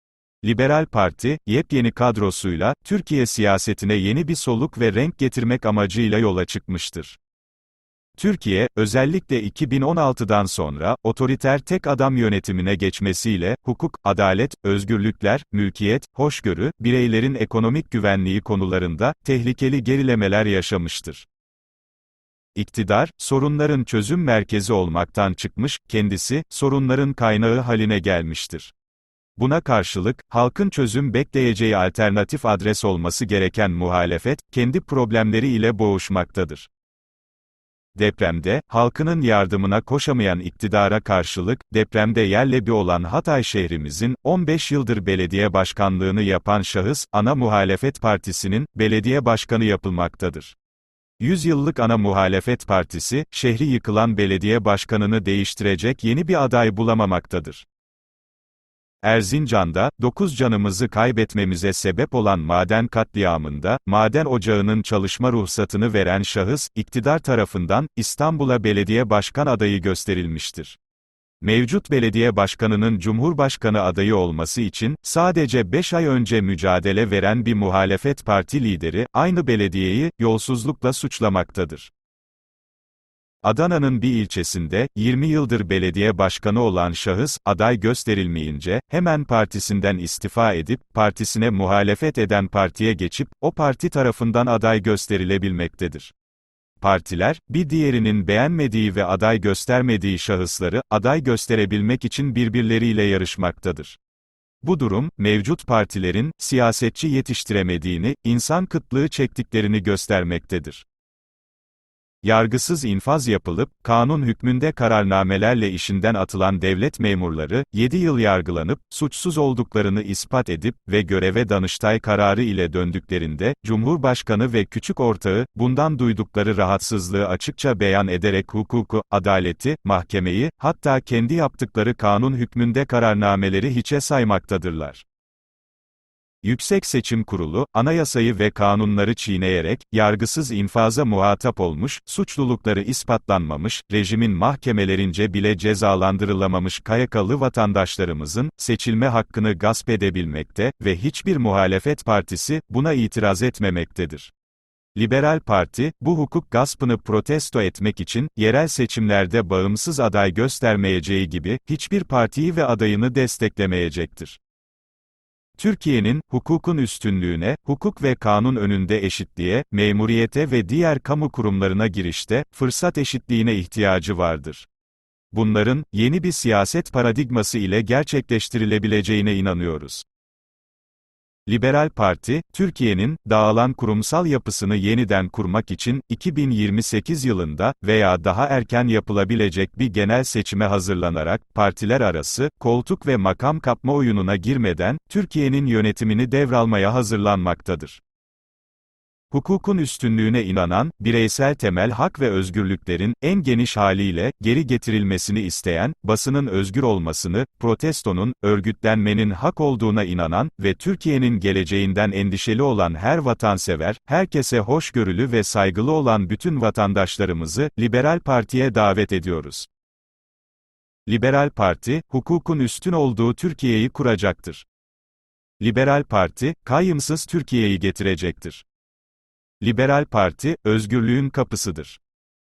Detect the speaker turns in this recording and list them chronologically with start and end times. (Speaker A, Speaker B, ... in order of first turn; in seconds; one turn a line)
Speaker A: 0.4-7.2
Speaker A: 8.2-21.3
Speaker A: 22.5-28.7
Speaker A: 29.4-36.7
Speaker A: 38.0-50.5
Speaker A: 51.2-57.6
Speaker A: 59.0-70.8
Speaker A: 71.4-81.9
Speaker A: 83.4-96.1
Speaker A: 96.8-104.0
Speaker A: 104.6-110.8
Speaker A: 112.2-135.0
Speaker A: 136.4-154.3
Speaker A: 154.9-164.4
Speaker A: 165.6-174.7
Speaker A: 175.3-180.0
Speaker A: 181.5-198.0
Speaker A: 199.3-219.7
Speaker A: 221.1-224.7
Speaker A: 225.6-228.6
Speaker A: 229.6-232.0